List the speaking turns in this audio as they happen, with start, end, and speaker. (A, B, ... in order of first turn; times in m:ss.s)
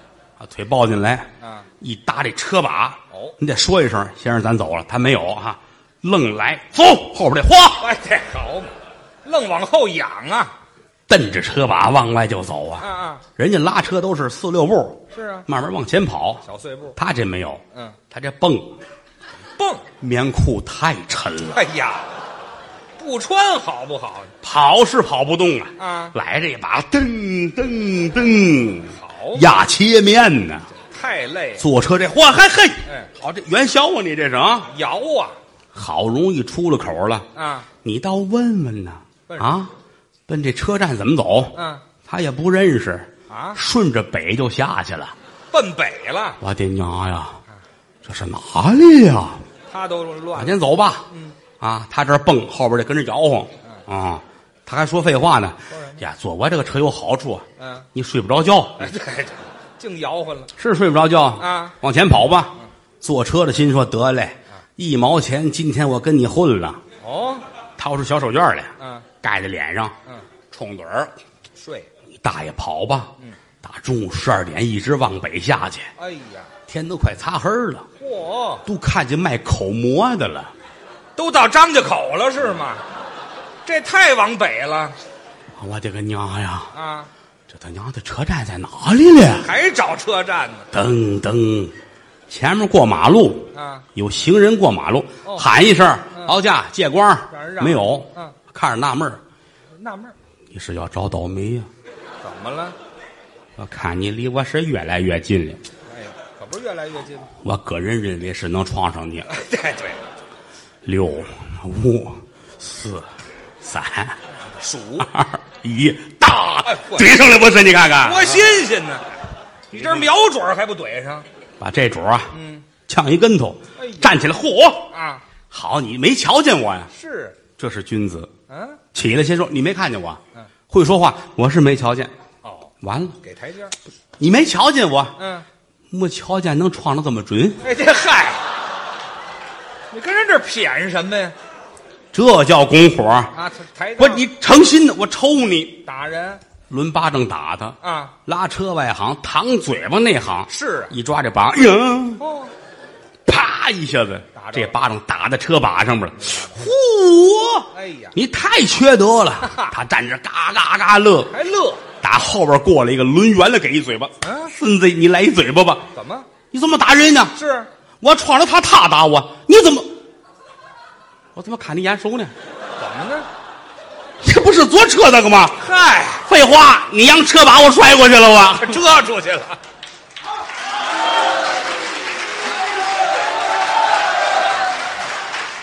0:00.4-0:07.9 A
0:01.4-0:01.7 B
0:03.1-0:03.4 B
0:07.8-0:10.5 B
0:11.1-0:16.4 A
0:12.8-0:13.2 B
0:15.1-0:15.5 B
0:16.4-0:17.0 B
0:17.0-0:18.8 A
0:17.7-0:18.0 B
0:19.5-0:19.8 B
0:20.0-0:21.6 A
0:21.5-0:22.1 B
0:23.0-0:24.3 B
0:24.4-0:30.7 A
0:25.8-0:26.1 B
0:28.9-0:29.5 B
0:30.7-0:31.6 B
0:31.6-0:34.7 A
0:32.8-0:33.1 B
0:34.6-0:35.4 B
0:35.7-0:37.3 A
0:37.3-0:37.7 B
0:37.8-0:39.7 A
0:39.3-0:39.6 B
0:40.3-0:45.1 A
0:41.5-0:41.8 B
0:43.3-0:43.6 B
0:45.5-0:46.4 B
0:46.4-0:47.4 A
0:48.0-0:49.4 A
0:49.7-0:51.4 B
0:50.3-0:51.1 A
0:51.6-0:58.9 A
0:55.7-0:56.0 B
0:57.6-0:57.9 B
0:58.8-1:00.5 B
1:00.6-1:06.8 A
1:01.4-1:01.8 B
1:07.0-1:07.4 B
1:07.8-1:10.0 A
1:08.8-1:09.1 B
1:10.5-1:11.1 A
1:11.6-1:11.9 B
1:12.2-1:15.9 A
1:16.0-1:16.5 B
1:16.7-1:17.9 A
1:18.0-1:18.7 B
1:18.6-1:20.5 A
1:21.2-1:22.8 B
1:23.6-1:25.0 B
1:25.6-1:26.7 A
1:26.7-1:27.1 B
1:27.5-1:29.5 A
1:29.4-1:30.7 B
1:30.7-1:31.7 A
1:32.3-1:39.2 A
1:33.5-1:33.9 B
1:35.2-1:35.5 B
1:36.1-1:36.4 B
1:37.3-1:38.4 B
1:39.7-1:40.1 B
1:40.5-1:41.7 A
1:42.2-1:42.8 B
1:43.6-1:45.6 A
1:45.8-1:47.3 B
1:47.4-1:49.3 A
1:49.2-1:50.0 B
1:50.8-1:54.2 A
1:54.5-1:55.1 B
1:55.0-1:58.5 A
1:56.6-1:57.2 B
1:58.0-1:59.2 B
1:59.7-2:01.3 B
1:59.7-2:00.1 A
2:01.6-2:02.4 A
2:02.3-2:02.6 B
2:02.9-2:04.9 A
2:03.8-2:04.3 B
2:04.8-2:05.2 B
2:05.5-2:06.9 A
2:06.9-2:07.4 B
2:07.6-2:08.3 A
2:08.5-2:08.8 B
2:08.9-2:12.1 A
2:12.4-2:13.7 B
2:12.8-2:13.2 A
2:14.2-2:15.2 A
2:15.2-2:15.4 B
2:15.9-2:17.6 A
2:17.6-2:18.5 B
2:19.9-2:21.3 B
2:22.1-2:23.3 A
2:23.3-2:24.3 B
2:24.0-2:25.8 A
2:25.8-2:26.4 B
2:26.7-2:32.2 A
2:27.8-2:28.2 B
2:30.5-2:30.9 B
2:32.2-2:32.5 B
2:33.2-2:41.3 A
2:34.3-2:34.8 B
2:36.1-2:36.7 B
2:37.7-2:38.2 B
2:39.4-2:39.7 B
2:41.3-2:41.8 B
2:42.0-2:45.9 A
2:44.2-2:44.5 B
2:45.9-2:46.3 B
2:46.5-2:47.3 A
2:47.3-2:47.7 B
2:48.0-2:49.9 A
2:51.3-2:52.3 A
2:52.8-2:53.3 B
2:54.2-2:55.6 A
2:55.6-2:56.3 B
2:56.2-2:58.8 A
2:58.6-2:59.6 B